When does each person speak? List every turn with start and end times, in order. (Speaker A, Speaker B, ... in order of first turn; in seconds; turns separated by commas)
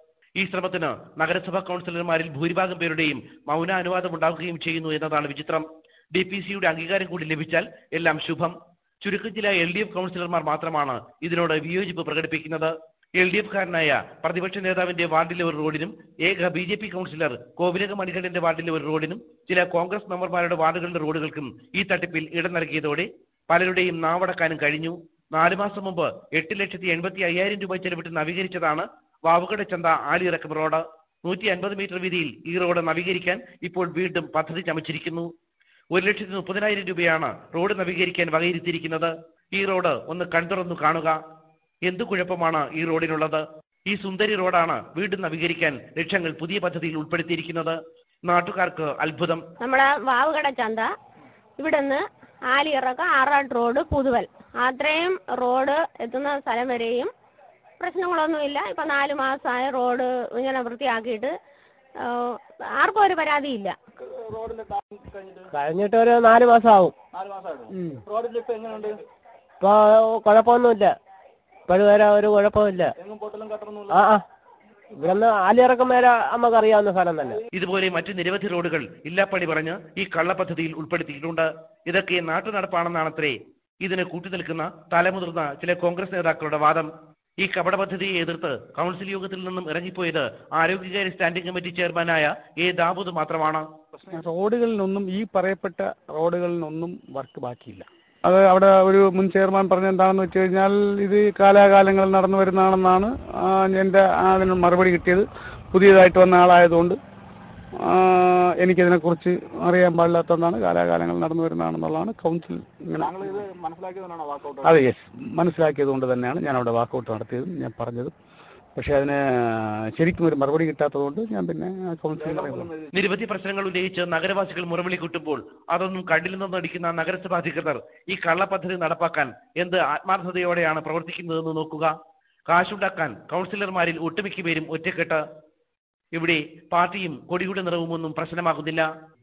Speaker A: 0.4-35.3, Speaker A: 35.9-41.2, Speaker A: 41.8-49.4, Speaker B: 49.6-50.9, Speaker B: 51.6-57.1, Speaker B: 57.8-61.3, Speaker B: 62.0-63.7, Speaker C: 64.1-65.5, Speaker D: 65.5-67.0, Speaker C: 67.1-69.0, Speaker D: 69.6-70.9, Speaker D: 71.7-72.9, Speaker C: 73.0-74.0, Speaker D: 73.9-74.2, Speaker D: 74.9-77.4, Speaker A: 77.5-93.7, Speaker E: 94.1-107.0, Speaker E: 107.8-113.3, Speaker C: 113.0-114.7, Speaker E: 114.6-118.1, Speaker E: 118.8-122.7, Speaker C: 122.2-122.9, Speaker A: 122.9-131.9, Speaker A: 132.5-135.2, Speaker A: 136.1-138.9